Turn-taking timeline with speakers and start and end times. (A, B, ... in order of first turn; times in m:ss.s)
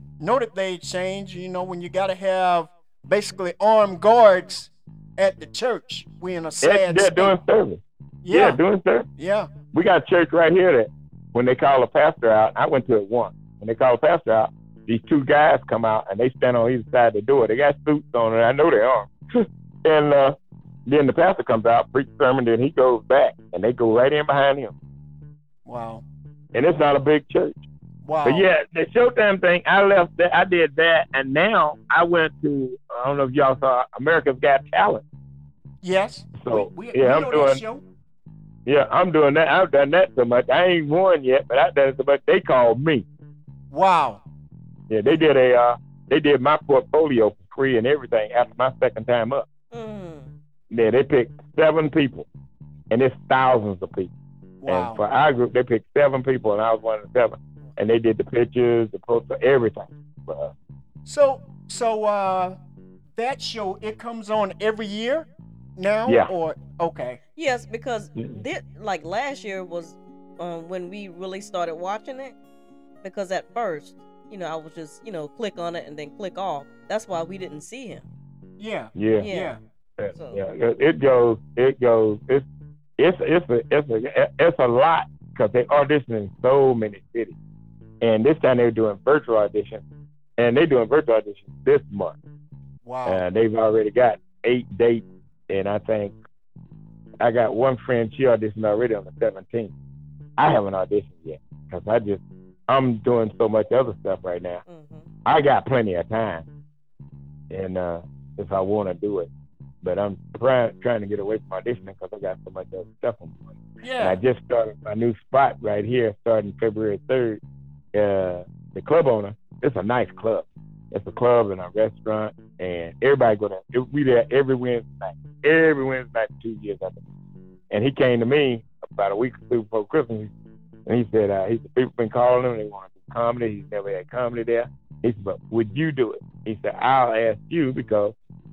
0:00.2-0:07.4 A
0:06.6-0:09.1 B
0:08.2-0:08.6 A
0:09.2-0:09.5 A
0:09.7-0:24.7 B
0:25.6-0:26.0 A
0:26.5-0:27.6 B
0:28.0-0:28.5 A
0:28.2-0:35.0 B
0:35.8-0:37.8 A
0:36.4-0:37.6 B
0:38.7-0:43.1 B
0:43.7-0:44.2 A
0:44.9-0:49.5 B
0:49.7-0:50.3 C
0:50.7-0:52.3 B
0:52.9-0:54.1 B
0:54.6-0:55.0 A
0:54.7-1:00.5 B
1:01.0-1:02.6 A
1:03.1-1:07.2 A
1:06.1-1:06.3 B
1:07.4-1:12.4 C
1:13.0-1:18.0 C
1:18.6-1:19.6 A
1:19.0-1:19.3 B
1:19.2-1:19.6 C
1:20.0-1:22.5 B
1:20.1-1:20.4 C
1:23.0-1:27.4 B
1:28.0-1:29.8 B
1:30.4-1:32.2 B
1:32.8-1:33.2 A
1:33.1-1:36.2 B
1:37.2-1:39.7 B
1:40.4-1:44.6 B
1:44.7-1:45.1 C
1:45.2-1:46.4 B
1:47.5-1:49.3 B
1:49.8-1:53.5 B
1:53.8-1:54.2 A
1:54.0-1:57.4 B
1:57.9-2:07.0 B
2:07.7-2:10.3 B
2:10.9-2:18.1 B